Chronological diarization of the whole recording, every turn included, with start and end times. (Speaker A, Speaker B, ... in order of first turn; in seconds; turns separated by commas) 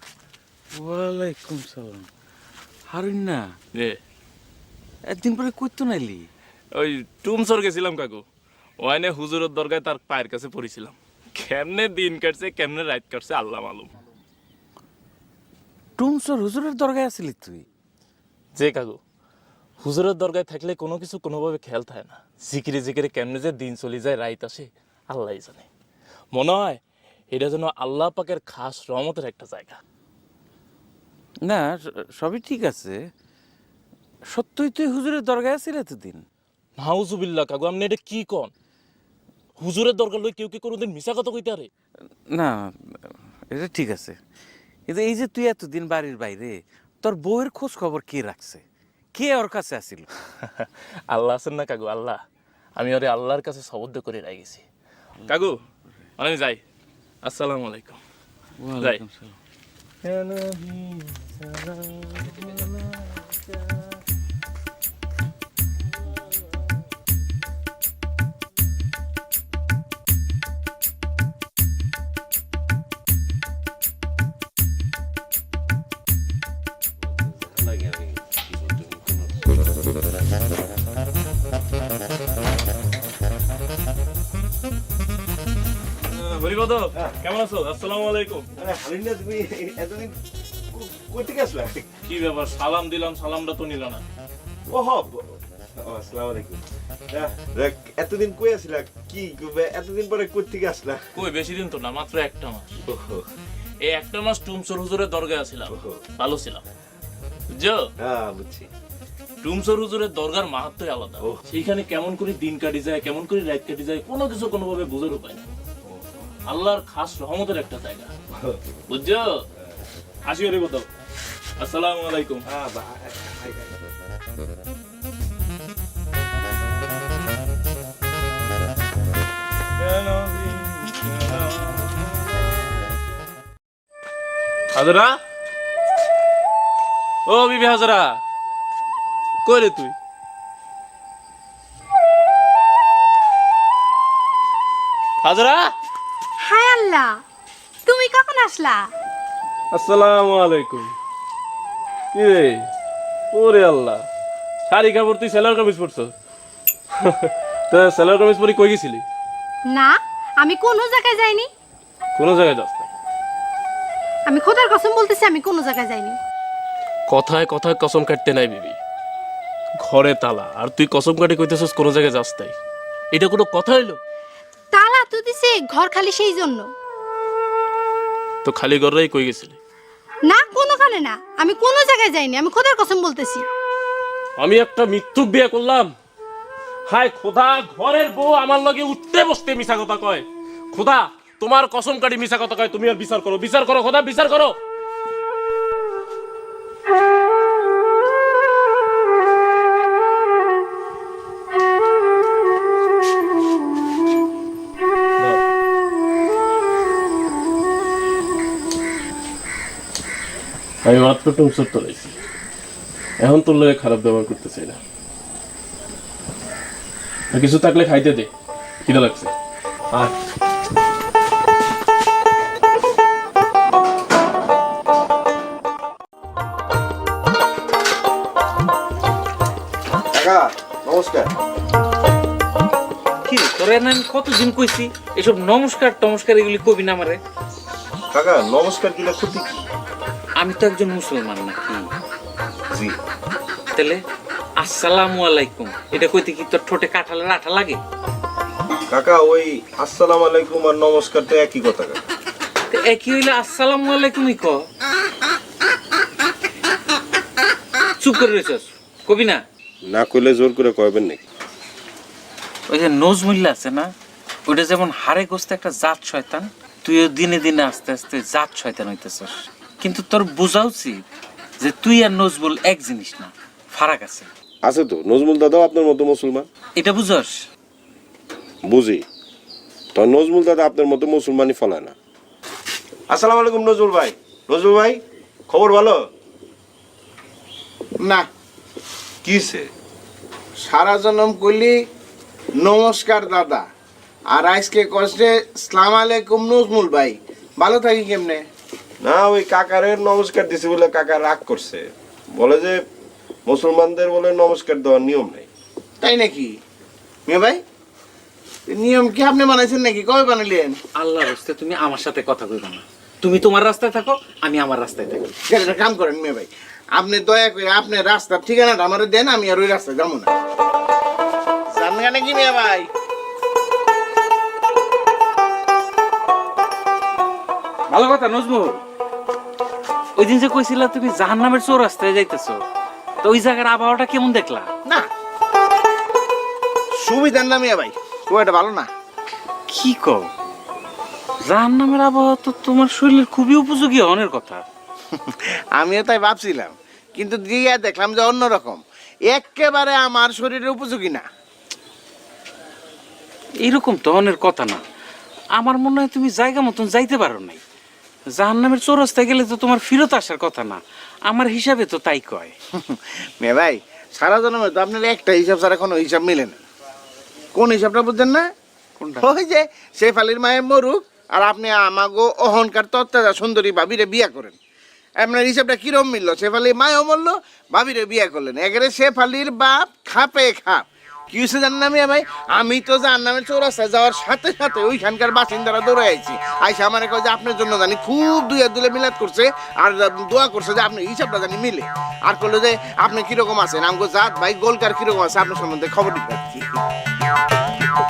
Speaker A: 0.7-2.1, Speaker A: 2.9-3.5, Speaker A: 5.1-6.3, Speaker B: 6.7-8.2, Speaker B: 8.8-13.9, Speaker A: 16.0-17.6, Speaker B: 18.6-19.0, Speaker B: 19.8-25.7, Speaker B: 26.3-29.8, Speaker A: 31.4-33.0, Speaker A: 34.3-36.2, Speaker B: 36.8-38.5, Speaker B: 39.6-41.7, Speaker A: 42.3-42.7, Speaker A: 43.5-44.2, Speaker A: 44.9-48.6, Speaker A: 49.1-50.1, Speaker B: 50.4-52.2, Speaker B: 52.8-54.6, Speaker B: 55.3-55.6, Speaker B: 56.2-56.6, Speaker B: 57.2-58.0, Speaker A: 58.6-59.4, Speaker B: 60.0-63.9, Speaker C: 77.4-78.4, Speaker B: 86.1-88.5, Speaker C: 88.6-90.1, Speaker C: 90.7-91.9, Speaker B: 92.0-94.0, Speaker C: 94.7-101.0, Speaker B: 101.1-102.7, Speaker C: 102.8-103.3, Speaker B: 103.8-106.6, Speaker C: 105.7-106.0, Speaker B: 107.5-107.9, Speaker C: 108.0-108.7, Speaker B: 109.4-115.5, Speaker C: 115.8-116.2, Speaker B: 116.5-118.1, Speaker B: 118.9-119.4, Speaker B: 120.2-120.9, Speaker B: 121.6-122.4, Speaker C: 122.5-123.7, Speaker B: 129.8-132.1, Speaker B: 134.7-135.2, Speaker B: 137.2-138.2, Speaker B: 139.4-139.9, Speaker B: 145.2-145.7, Speaker D: 146.4-147.2, Speaker D: 147.8-148.9, Speaker B: 149.7-150.9, Speaker B: 152.1-152.7, Speaker B: 153.3-154.0, Speaker B: 154.7-156.1, Speaker B: 157.0-159.0, Speaker D: 159.7-161.5, Speaker B: 162.1-162.9, Speaker D: 164.3-166.2, Speaker B: 167.1-168.8, Speaker B: 169.8-172.6, Speaker B: 173.1-174.0, Speaker D: 174.7-176.7, Speaker B: 178.4-179.6, Speaker D: 180.2-183.4, Speaker B: 184.4-185.9, Speaker B: 186.9-194.6, Speaker B: 210.8-212.1, Speaker B: 213.2-214.8, Speaker B: 217.3-218.3, Speaker B: 218.8-219.3, Speaker C: 230.1-231.3, Speaker A: 233.2-237.2, Speaker C: 238.1-239.6, Speaker A: 240.4-241.9, Speaker C: 242.7-243.0, Speaker A: 243.7-244.0, Speaker A: 244.6-247.8, Speaker C: 248.9-252.0, Speaker A: 252.7-254.7, Speaker A: 258.0-259.4, Speaker C: 259.9-261.2, Speaker A: 262.7-263.9, Speaker A: 264.5-271.0, Speaker A: 271.6-274.3, Speaker C: 274.6-276.5, Speaker A: 276.8-277.3, Speaker C: 278.6-279.0, Speaker C: 279.9-281.9, Speaker C: 283.1-286.0, Speaker C: 289.2-289.7, Speaker E: 290.6-291.8, Speaker E: 292.6-293.6, Speaker E: 294.3-298.4, Speaker C: 299.0-302.8, Speaker C: 303.4-305.5, Speaker E: 306.0-306.5, Speaker E: 307.3-307.6, Speaker E: 308.7-310.7, Speaker A: 310.9-315.3, Speaker E: 315.5-320.3, Speaker E: 321.7-322.9, Speaker A: 327.9-328.8, Speaker A: 330.1-332.6, Speaker A: 333.2-334.7, Speaker E: 337.0-338.9, Speaker A: 339.7-340.3, Speaker A: 341.4-344.6, Speaker E: 345.1-351.2, Speaker A: 353.6-354.8, Speaker A: 355.6-357.6, Speaker A: 358.3-362.5, Speaker E: 362.8-366.6, Speaker E: 367.5-368.5, Speaker A: 369.0-369.3, Speaker E: 369.2-374.6, Speaker E: 375.2-396.8